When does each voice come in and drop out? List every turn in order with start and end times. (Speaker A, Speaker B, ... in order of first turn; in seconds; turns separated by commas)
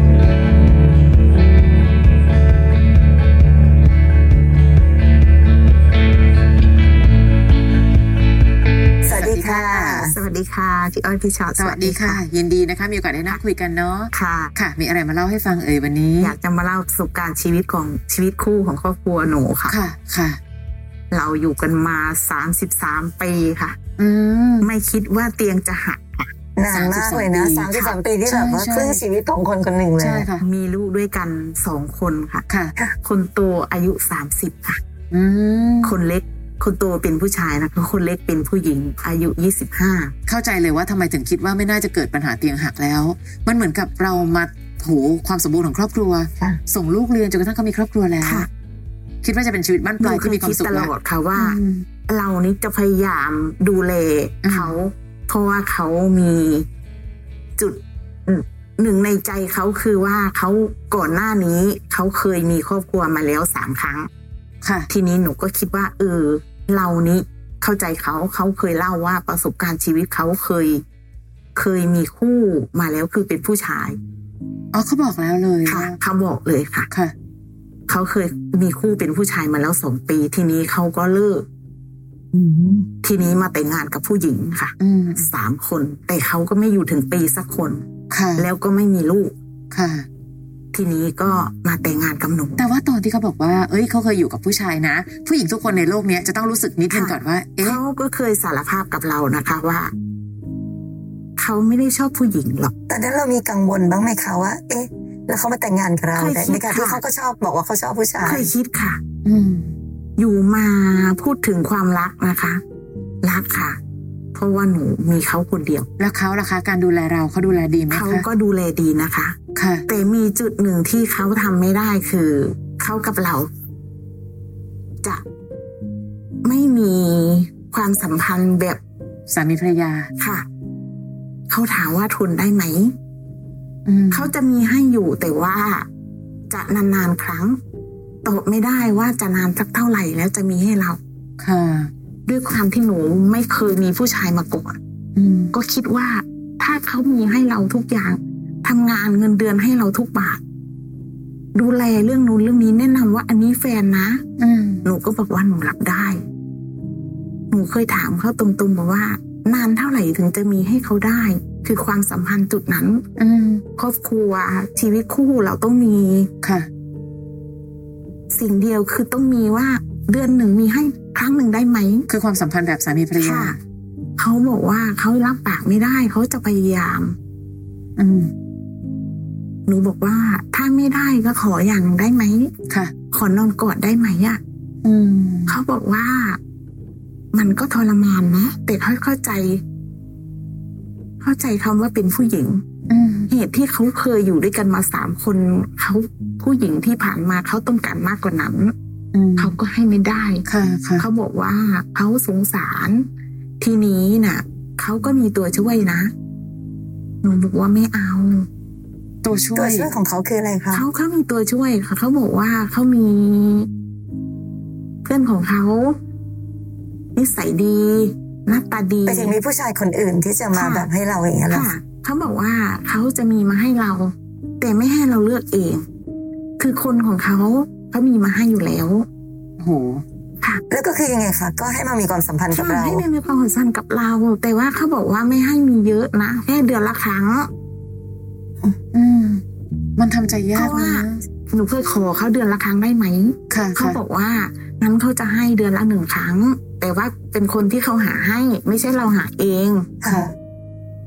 Speaker A: 9.0-10.1, Speaker B: 9.2-10.1, Speaker C: 10.0-12.2, Speaker B: 11.6-16.3, Speaker C: 14.1-14.5, Speaker C: 16.2-19.8, Speaker B: 19.7-20.4, Speaker C: 21.1-23.8, Speaker B: 24.0-24.7, Speaker C: 24.6-26.3, Speaker A: 26.6-30.3, Speaker B: 26.7-27.7, Speaker C: 27.7-28.0, Speaker B: 28.3-29.0, Speaker B: 30.0-30.4, Speaker C: 30.4-32.4, Speaker B: 32.5-32.7, Speaker C: 33.0-34.8, Speaker B: 35.1-36.0, Speaker C: 35.8-40.1, Speaker B: 40.3-48.5, Speaker C: 48.2-48.5, Speaker B: 49.2-51.8, Speaker C: 50.0-56.7, Speaker B: 54.4-54.8, Speaker C: 57.6-64.1, Speaker B: 64.6-64.9, Speaker C: 64.9-70.8, Speaker C: 71.5-74.0, Speaker B: 74.7-76.0, Speaker C: 75.7-76.9, Speaker C: 77.9-81.5, Speaker A: 82.3-82.9, Speaker C: 83.0-89.3, Speaker B: 84.8-85.3, Speaker B: 88.1-88.5, Speaker B: 89.7-90.1, Speaker C: 90.7-92.7, Speaker B: 92.6-97.8, Speaker C: 96.9-99.9, Speaker C: 101.4-102.7, Speaker A: 102.9-108.5, Speaker C: 106.1-107.0, Speaker C: 108.2-109.0, Speaker B: 109.2-109.8, Speaker C: 110.2-112.6, Speaker C: 113.2-113.8, Speaker C: 114.3-115.9, Speaker B: 116.0-118.3, Speaker C: 117.9-123.5, Speaker B: 119.5-119.8, Speaker C: 126.4-128.8, Speaker B: 129.3-130.1, Speaker C: 130.2-130.4, Speaker C: 131.5-132.9, Speaker B: 133.8-134.3, Speaker C: 134.1-135.9, Speaker C: 136.5-137.6, Speaker C: 138.2-141.0, Speaker B: 141.4-141.9, Speaker C: 142.2-144.8, Speaker B: 145.1-145.5, Speaker C: 145.5-150.4, Speaker C: 151.5-154.2, Speaker B: 154.4-154.8, Speaker C: 154.8-156.2, Speaker C: 157.5-163.0, Speaker B: 163.2-163.6, Speaker C: 163.8-166.3, Speaker B: 166.4-166.7, Speaker C: 168.3-172.1, Speaker B: 172.1-173.6, Speaker C: 173.2-173.6, Speaker C: 174.2-177.2, Speaker B: 178.0-178.3, Speaker C: 179.7-182.5, Speaker C: 183.1-184.4, Speaker B: 184.8-185.6, Speaker C: 185.5-186.4, Speaker C: 187.3-189.6, Speaker C: 191.2-192.6, Speaker B: 192.9-193.3, Speaker C: 193.3-198.7, Speaker B: 199.1-199.6, Speaker C: 199.4-200.4, Speaker B: 200.4-201.1, Speaker C: 201.0-203.1, Speaker C: 203.6-206.1, Speaker C: 207.2-208.5, Speaker B: 209.2-209.9, Speaker A: 209.6-210.8, Speaker C: 210.7-213.7, Speaker C: 215.0-215.9, Speaker C: 217.1-219.4, Speaker A: 219.1-221.7, Speaker C: 220.5-220.9, Speaker C: 221.5-225.8, Speaker C: 226.6-229.1, Speaker B: 229.6-230.0, Speaker A: 230.7-233.0, Speaker C: 232.5-237.5, Speaker B: 238.9-239.4, Speaker B: 240.0-241.2, Speaker C: 240.5-250.1, Speaker B: 243.5-244.0, Speaker A: 250.0-250.3